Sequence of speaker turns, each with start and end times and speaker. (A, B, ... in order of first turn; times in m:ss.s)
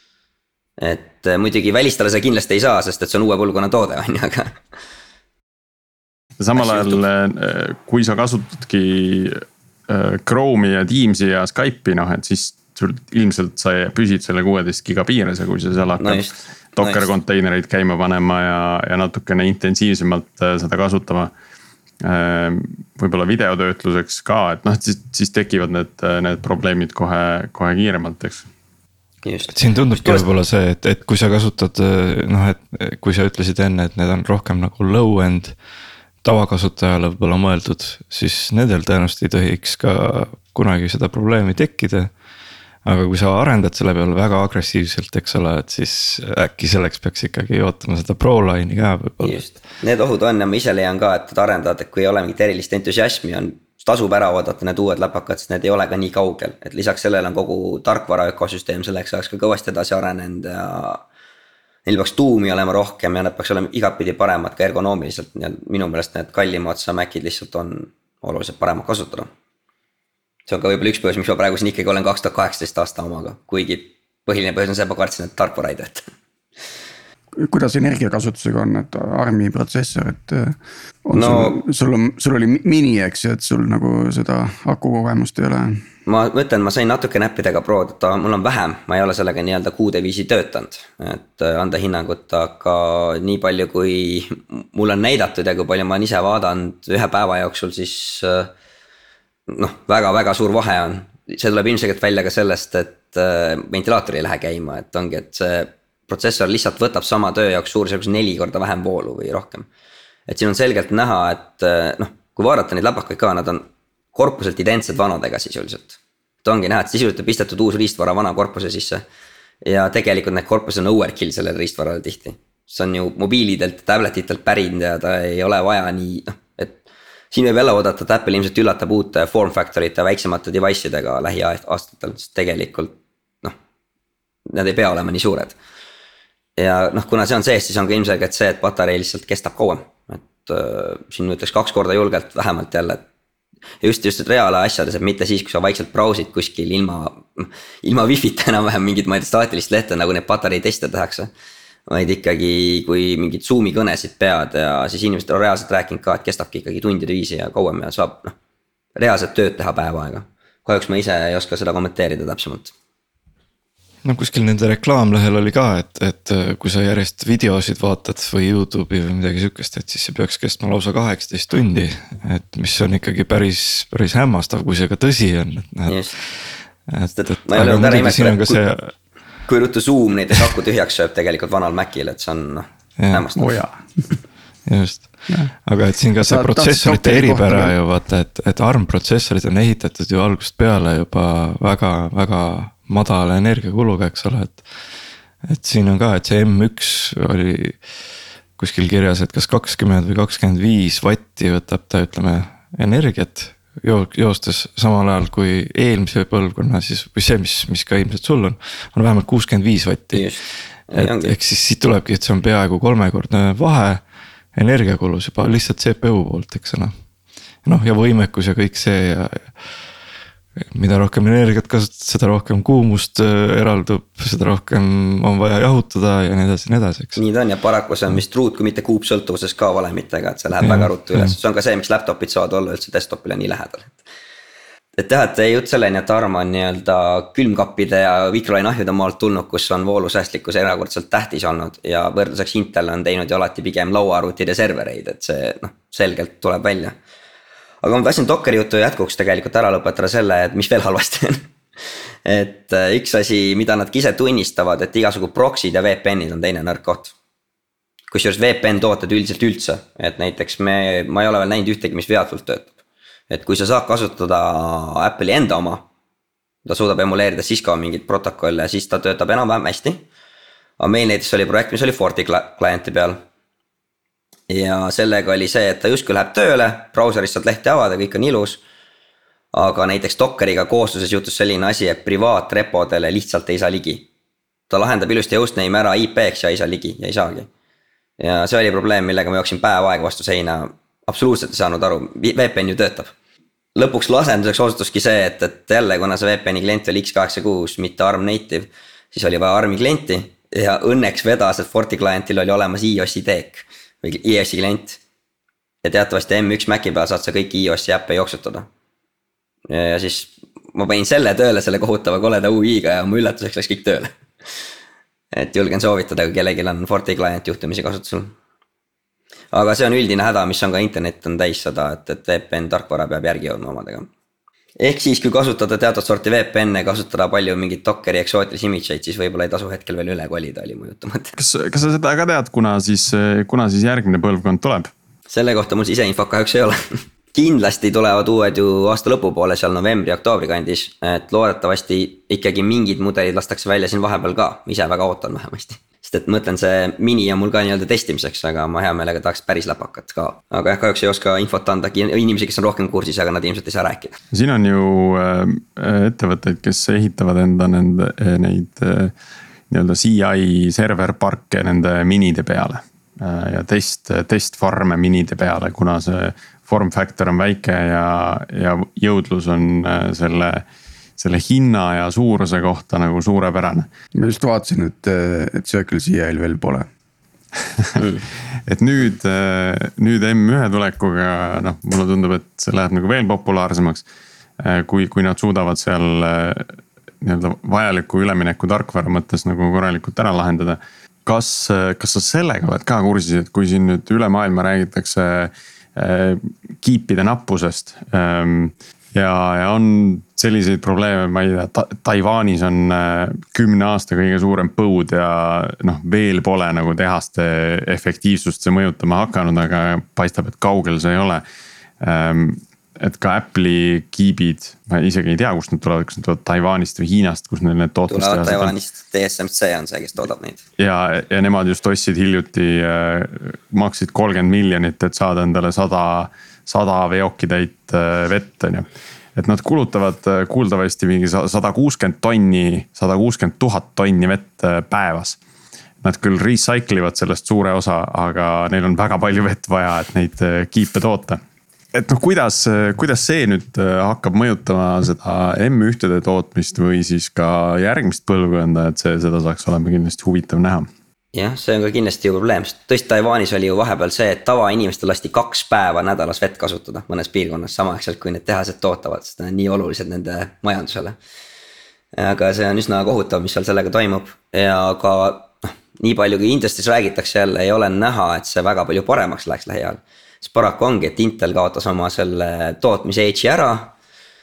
0:00.8-0:04.6 A
0:06.4-0:16.2 B
0:06.6-0:07.0 A
0:16.0-0:17.1 A
0:16.8-0:21.3 B
0:22.0-0:28.4 B
0:29.2-0:30.3 A
0:29.5-0:35.6 C
0:36.2-0:42.1 C
0:42.8-0:49.5 C
0:49.2-1:01.0 A
1:01.8-1:09.3 A
1:10.5-1:16.0 A
1:17.4-1:25.8 D
1:21.1-1:21.6 A
1:26.0-1:38.5 A
1:39.5-1:49.7 A
1:50.3-1:59.0 A
1:59.6-2:06.8 A
2:07.3-2:13.5 A
2:14.5-2:15.6 A
2:16.6-2:23.0 A
2:23.8-2:31.3 A
2:31.9-2:38.3 A
2:39.0-2:42.7 A
2:44.0-2:58.9 C
2:55.9-2:56.1 A
2:57.1-2:58.6 A
2:59.4-3:03.5 A
3:03.0-3:03.2 C
3:03.4-3:04.2 D
3:04.6-3:14.7 C
3:06.2-3:07.7 D
3:15.4-3:17.8 C
3:18.6-3:30.3 C
3:30.1-3:31.3 A
3:30.9-3:34.0 C
3:34.5-3:36.9 C
3:37.6-3:39.6 C
3:40.6-3:47.2 C
3:47.2-3:54.0 A
3:50.6-3:51.3 C
3:55.0-4:06.9 A
4:07.8-4:11.4 A
4:12.2-4:17.1 A
4:18.1-4:22.7 A
4:23.3-4:25.8 A
4:26.6-4:30.0 A
4:30.8-4:33.2 A
4:34.5-4:38.6 A
4:39.5-4:44.0 A
4:44.7-4:47.5 A
4:48.2-4:53.1 A
4:53.7-5:05.0 A
5:05.8-5:08.7 A
5:09.7-5:14.1 A
5:15.3-5:18.3 A
5:19.5-5:24.1 A
5:24.8-5:31.4 A
5:31.4-5:34.9 B
5:35.3-5:54.2 A
5:54.3-5:59.1 B
5:59.7-6:10.6 B
6:11.2-6:13.9 B
6:14.2-6:16.9 D
6:18.0-6:18.2 A
6:18.7-6:24.0 B
6:24.6-6:51.4 B
6:52.0-6:58.7 B
6:58.1-7:00.6 A
7:00.8-7:15.4 B
7:16.0-7:21.4 B
7:21.9-7:30.9 B
7:31.3-7:41.2 A
7:42.2-7:53.9 A